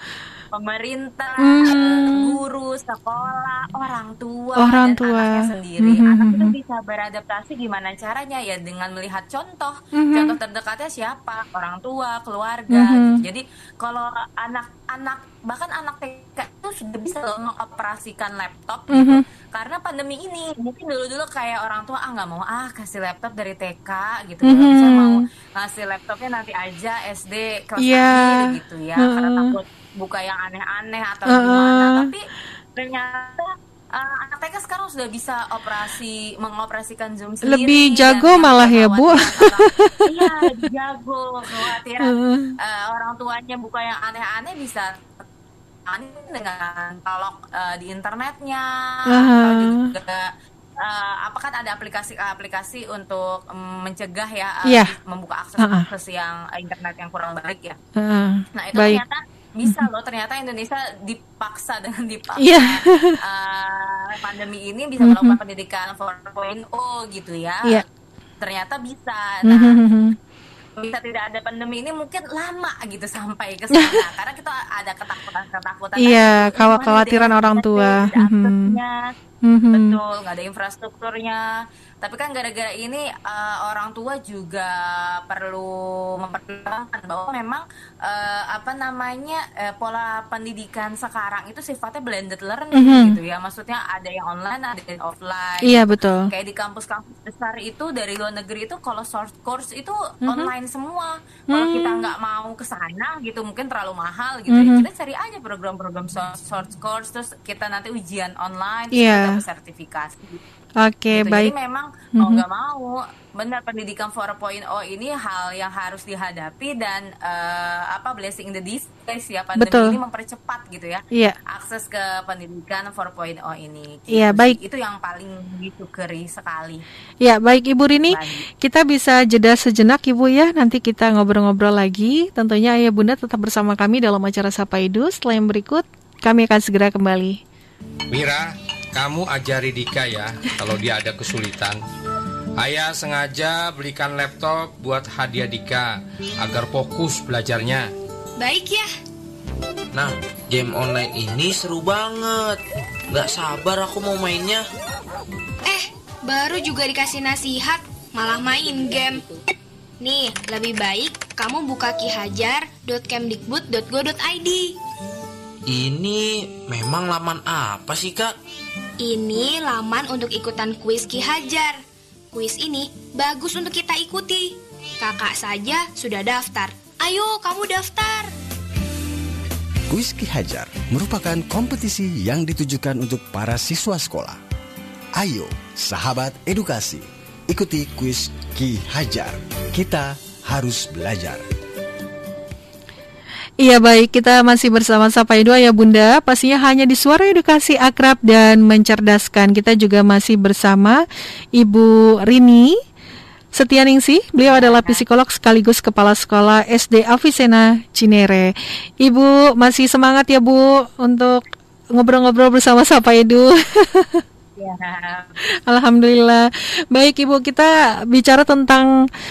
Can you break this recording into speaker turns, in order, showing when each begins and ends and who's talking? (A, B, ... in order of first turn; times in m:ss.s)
0:00.5-0:45.2 A
0:01.4-0:02.4 B
0:04.6-0:06.5 B
0:10.0-0:10.4 B
0:12.7-0:13.2 B
0:18.9-0:19.2 B
0:24.4-0:25.2 B
0:27.8-0:29.6 B
0:31.3-0:32.1 B
0:37.5-0:40.5 B
0:42.0-0:42.6 B
0:45.9-0:57.8 A
0:49.1-0:49.9 B
0:54.6-0:54.9 B
0:55.6-0:55.9 B
0:58.0-0:59.0 B
0:58.5-1:07.8 A
1:02.4-1:03.2 B
1:05.0-1:05.4 B
1:08.4-1:09.8 A
1:09.4-1:10.2 B
1:10.8-1:19.1 A
1:16.0-1:18.8 B
1:19.4-1:20.0 B
1:19.7-1:21.4 A
1:22.0-1:50.4 A
1:32.7-1:33.2 B
1:35.6-1:36.3 B
1:40.2-1:40.5 B
1:41.5-1:42.1 B
1:44.5-1:44.8 B
1:48.9-1:49.4 B
1:50.8-1:51.5 B
1:51.1-2:06.8 A
1:52.2-1:52.4 B
1:59.6-2:00.0 B
2:04.1-2:04.6 B
2:07.2-2:17.4 B
2:08.1-2:08.5 A
2:18.1-2:21.8 C
2:22.6-2:27.9 C
2:28.4-2:28.9 D
2:29.9-2:34.6 E
2:35.6-2:39.2 D
2:40.0-2:44.7 D
2:45.7-2:48.3 E
2:49.0-2:51.8 D
2:52.3-2:58.3 D
2:59.9-3:04.4 F
3:05.1-3:11.4 F
3:13.6-3:21.0 B
3:21.6-3:22.8 B
3:23.5-3:31.4 B
3:24.4-3:25.0 A
3:32.0-3:34.2 B
3:34.6-3:35.4 A
3:35.7-3:38.9 B